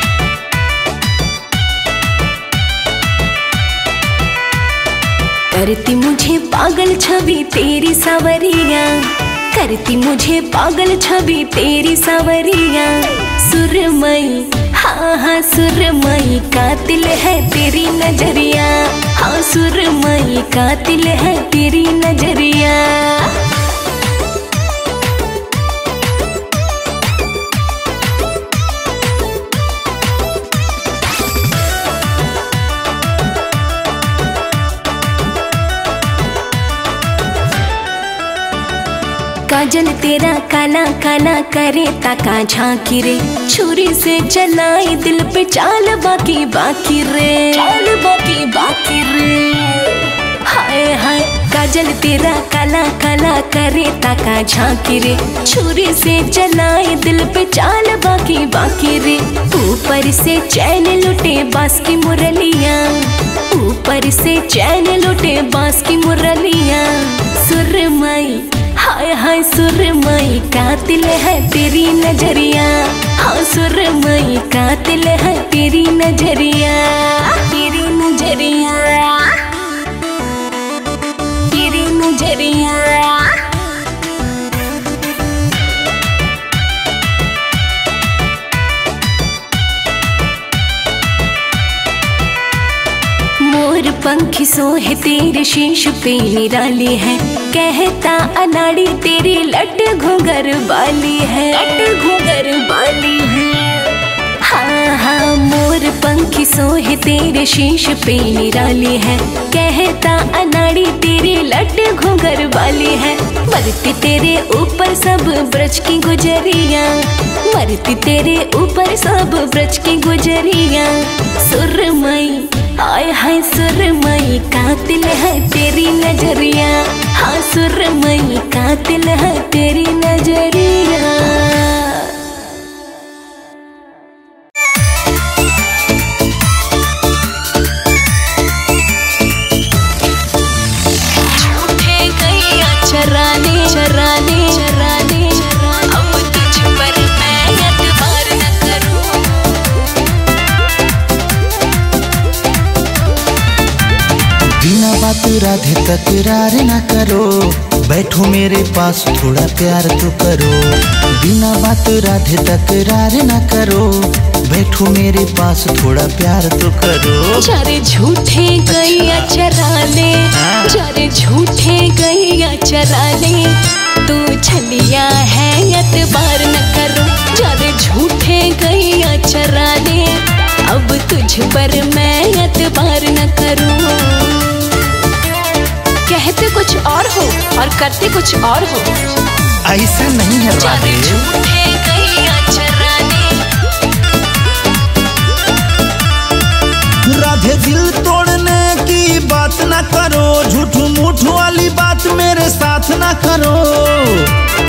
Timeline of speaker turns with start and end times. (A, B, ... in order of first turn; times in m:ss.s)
0:05.5-0:23.5 A
0:39.5-1:19.7 A
1:21.3-1:23.6 A
1:33.4-2:12.5 A
2:21.1-2:29.8 A
2:34.6-2:47.5 B
2:47.4-3:05.0 A
2:48.7-2:49.3 B
2:50.3-2:50.8 B
3:06.0-3:08.9 A
3:09.6-3:11.3 B
3:10.6-3:13.5 A
3:17.0-3:24.3 B